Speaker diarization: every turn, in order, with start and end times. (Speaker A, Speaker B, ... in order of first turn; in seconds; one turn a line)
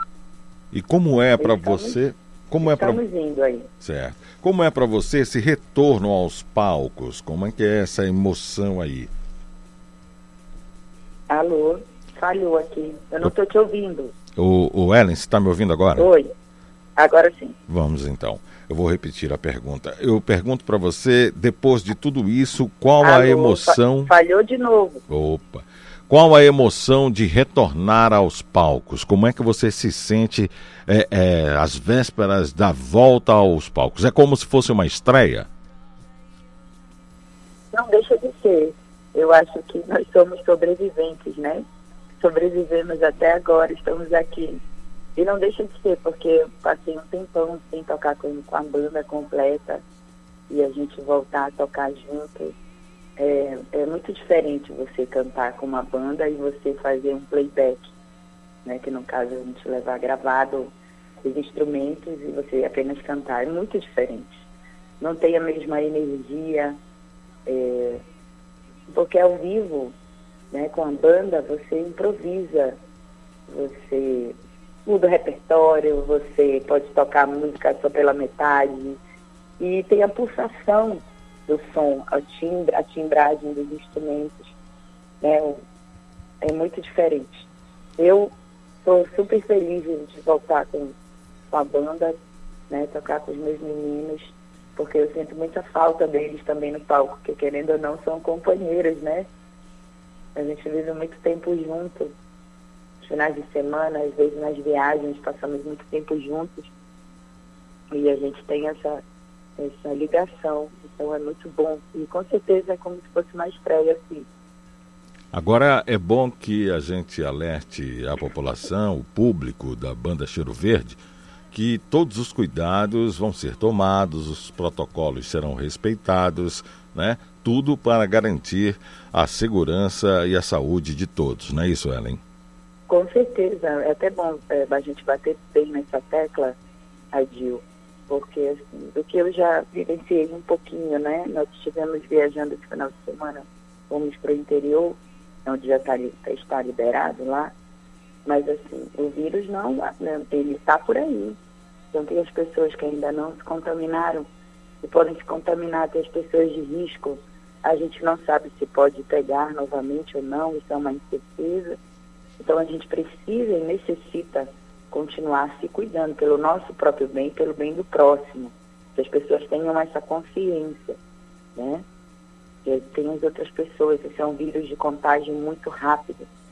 Speaker A: 0.7-3.0
Speaker B: 1.4-2.0
Speaker B: 2.6-3.7
Speaker A: 3.8-9.1
Speaker B: 11.3-14.1
Speaker A: 14.4-16.1
Speaker B: 16.0-16.3
Speaker B: 17.0-17.6
Speaker A: 17.7-24.1
Speaker B: 23.0-25.0
Speaker A: 25.1-35.5
Speaker B: 37.7-41.6
Speaker B: 42.2-44.6
Speaker B: 45.2-49.8
Speaker B: 50.5-52.5
Speaker B: 53.2-57.9
Speaker B: 58.6-60.7
Speaker B: 61.2-64.4
Speaker B: 65.0-66.8
Speaker B: 67.5-68.0
Speaker B: 68.9-69.9
Speaker B: 70.5-72.8
Speaker B: 73.5-79.0
Speaker B: 79.6-84.5
Speaker B: 85.2-85.6
Speaker B: 86.4-87.5
Speaker B: 88.0-91.0
Speaker B: 91.5-92.2
Speaker B: 92.7-99.3
Speaker B: 100.3-102.1
Speaker B: 103.0-106.7
Speaker B: 107.9-109.0
Speaker B: 109.6-114.3
Speaker A: 115.3-121.0
Speaker A: 121.5-132.2
Speaker B: 132.9-136.6
Speaker B: 137.1-147.5
Speaker B: 148.3-151.4
Speaker B: 151.9-154.3
Speaker B: 154.8-161.8
Speaker B: 162.4-171.0
Speaker B: 171.6-171.8
Speaker B: 172.7-176.3